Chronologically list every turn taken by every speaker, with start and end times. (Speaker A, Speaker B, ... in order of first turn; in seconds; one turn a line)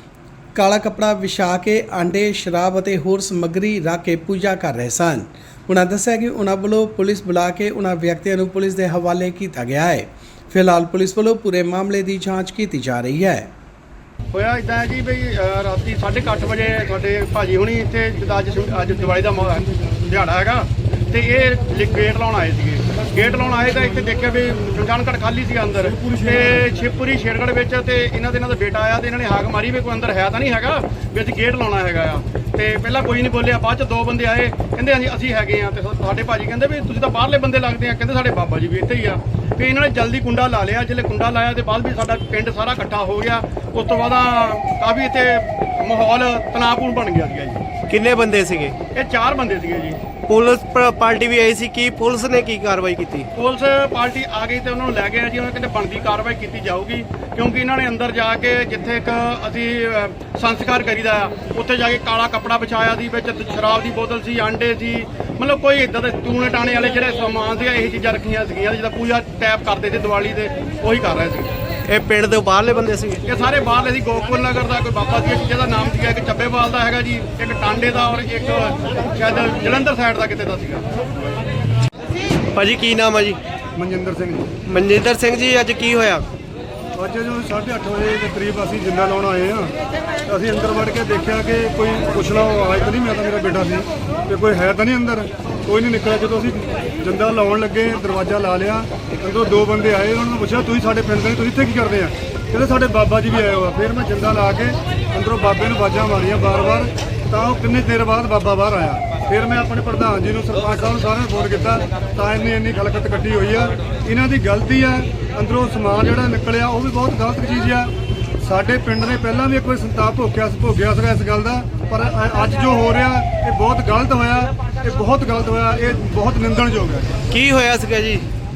Speaker A: 0.5-13.5
Speaker B: 14.3-47.7
Speaker C: 47.9-48.8
Speaker B: 48.9-50.0
Speaker C: 50.3-53.3
Speaker B: 53.4-71.5
Speaker C: 71.9-73.2
Speaker B: 73.2-80.8
Speaker C: 82.5-83.4
Speaker D: 83.8-84.6
Speaker C: 84.7-86.2
Speaker D: 86.9-89.7
Speaker D: 90.2-117.9
Speaker D: 118.4-127.1
Speaker C: 127.3-128.2